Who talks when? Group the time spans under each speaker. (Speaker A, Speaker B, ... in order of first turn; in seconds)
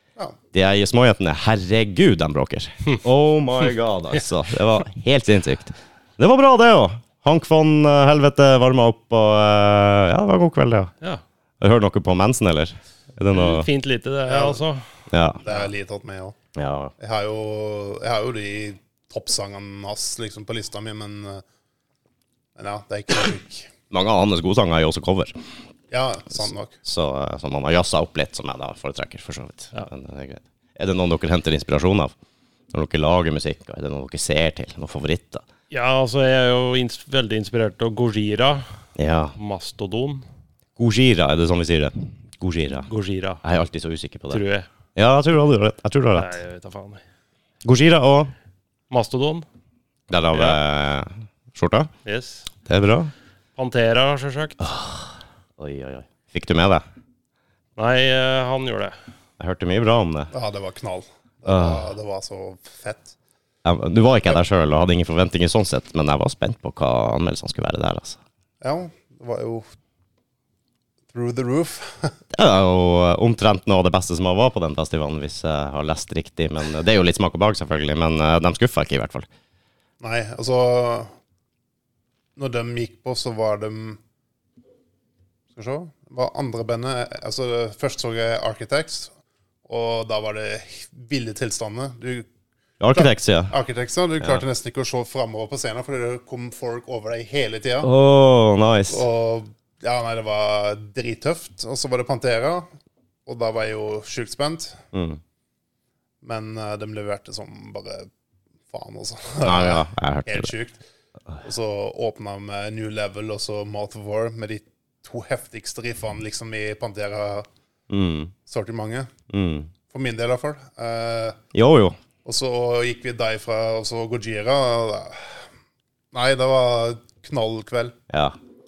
Speaker A: 0.5-10.9, 11.6-13.7, 15.1-15.4, 16.6-16.9, 23.9-25.3, 26.9-32.1, 32.7-35.5, 39.0-39.4, 40.8-42.9, 43.4-44.4, 45.0-46.4, 47.6-48.3, 50.1-51.9, 52.6-53.1, 54.6-56.8, 59.4-60.3, 61.5-61.9, 63.6-68.2, 72.3-79.3, 92.8-93.5, 97.8-99.0, 104.9-105.2, 109.4-110.5, 117.9-118.3, 119.3-119.7, 121.5-122.0, 128.1-128.4
Speaker B: 13.3-14.8, 35.7-38.6, 39.4-40.3, 42.9-43.4, 44.3-44.7, 46.2-47.0, 48.9-49.5, 50.3-50.6, 52.0-52.5, 53.6-54.7, 57.8-59.0
Speaker C: 14.3-14.6, 15.4-16.4, 17.0-21.4, 22.6-23.7, 25.9-26.8, 60.3-63.1, 68.6-69.7, 71.1-72.2, 80.0-81.1, 82.4-84.0, 85.5-89.1, 89.7-92.3, 92.9-97.9, 98.9-102.7, 103.3-104.8, 106.2-108.1, 108.7-110.8, 111.4-117.5, 118.5-119.1, 119.9-121.4, 122.2-125.5, 126.1-128.0